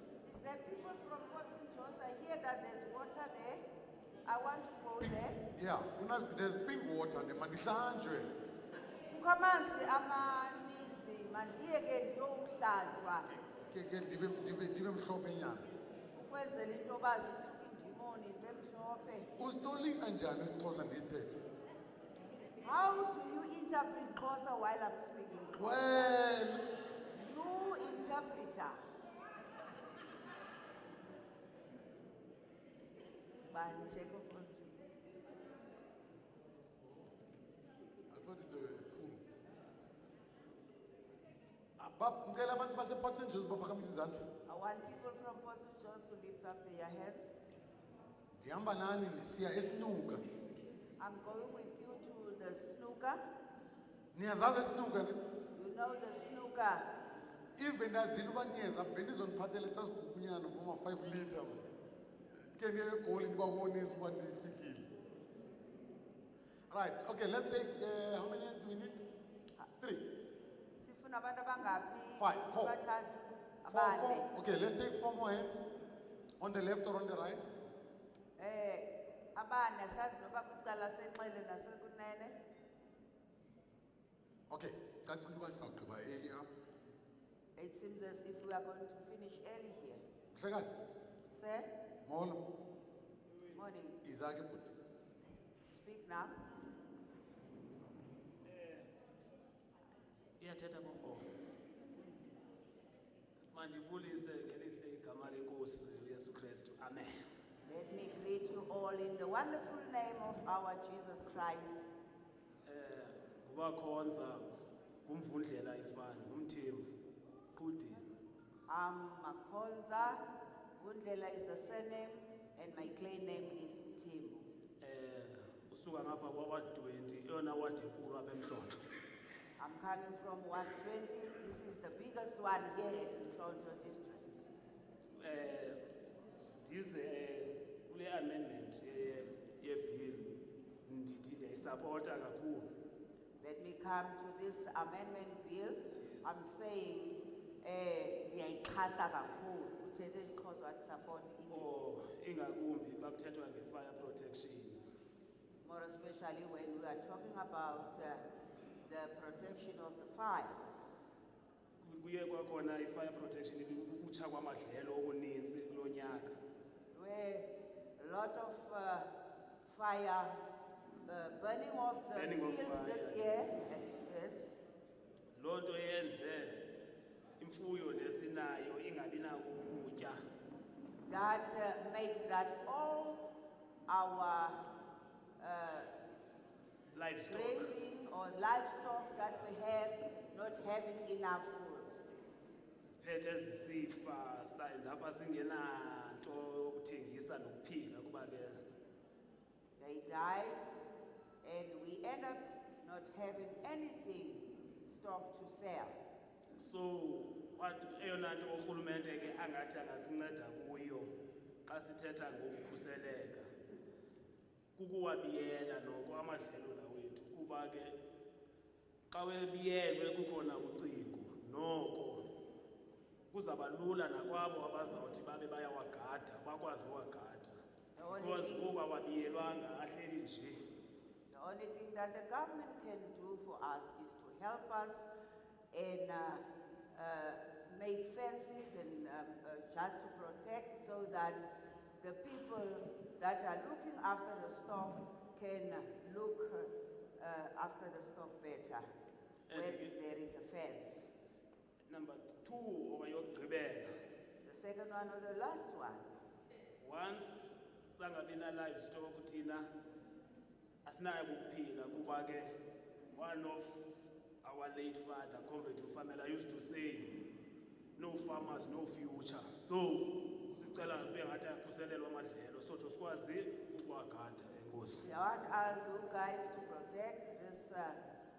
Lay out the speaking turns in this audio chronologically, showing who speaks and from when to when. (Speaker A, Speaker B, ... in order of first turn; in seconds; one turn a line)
Speaker A: 0.2-3.6
Speaker A: 4.2-5.4
Speaker B: 5.0-8.3
Speaker A: 9.1-13.3
Speaker B: 13.3-15.7
Speaker A: 16.2-19.3
Speaker B: 19.4-21.4
Speaker A: 22.6-26.2
Speaker B: 25.5-26.6
Speaker A: 27.1-28.8
Speaker A: 33.5-34.8
Speaker B: 38.1-39.2
Speaker B: 41.8-44.2
Speaker A: 44.5-47.4
Speaker B: 48.4-50.2
Speaker A: 51.0-53.2
Speaker B: 54.1-55.2
Speaker A: 55.5-56.9
Speaker B: 57.6-61.6
Speaker B: 62.4-64.9
Speaker B: 66.7-69.0
Speaker A: 70.8-74.3
Speaker B: 72.2-72.7
Speaker B: 73.7-75.7
Speaker B: 76.4-77.5
Speaker A: 78.4-82.4
Speaker B: 84.5-86.5
Speaker A: 87.5-90.0
Speaker B: 90.3-90.8
Speaker A: 91.3-91.7
Speaker B: 92.0-92.4
Speaker A: 93.5-94.0
Speaker B: 94.0-94.7
Speaker A: 95.7-96.4
Speaker C: 98.4-98.9
Speaker C: 100.4-101.2
Speaker C: 103.5-107.2
Speaker A: 107.7-111.9
Speaker C: 112.7-114.5
Speaker C: 115.0-116.9
Speaker C: 117.5-118.0
Speaker A: 118.7-120.2
Speaker A: 120.8-124.5
Speaker C: 124.8-128.8
Speaker A: 129.6-134.2
Speaker C: 135.1-135.8
Speaker C: 136.6-142.7
Speaker A: 143.4-151.7
Speaker C: 146.0-146.3
Speaker C: 151.5-154.8
Speaker A: 155.6-158.2
Speaker A: 158.8-160.5
Speaker C: 161.8-166.3
Speaker A: 166.9-169.1
Speaker A: 169.7-170.4
Speaker A: 171.1-174.4
Speaker C: 172.1-173.6
Speaker C: 175.3-176.6
Speaker C: 177.4-180.2
Speaker A: 181.1-183.2
Speaker A: 183.9-184.6
Speaker A: 185.4-185.9
Speaker C: 186.9-187.7
Speaker A: 187.3-192.0
Speaker C: 192.8-198.6
Speaker A: 199.8-200.6
Speaker A: 201.4-205.9
Speaker C: 206.6-211.1
Speaker C: 211.7-213.5
Speaker C: 214.8-217.9
Speaker C: 219.1-222.2
Speaker C: 223.3-227.5
Speaker A: 227.9-228.7
Speaker C: 228.1-230.6
Speaker A: 231.3-235.1
Speaker A: 235.7-236.4
Speaker A: 236.9-241.4
Speaker A: 242.0-248.8
Speaker C: 249.5-249.9
Speaker A: 249.5-251.1
Speaker C: 251.9-253.9
Speaker A: 254.4-256.0
Speaker C: 256.8-259.7
Speaker C: 260.8-262.5
Speaker C: 263.1-267.2
Speaker C: 267.9-275.1
Speaker A: 275.0-278.0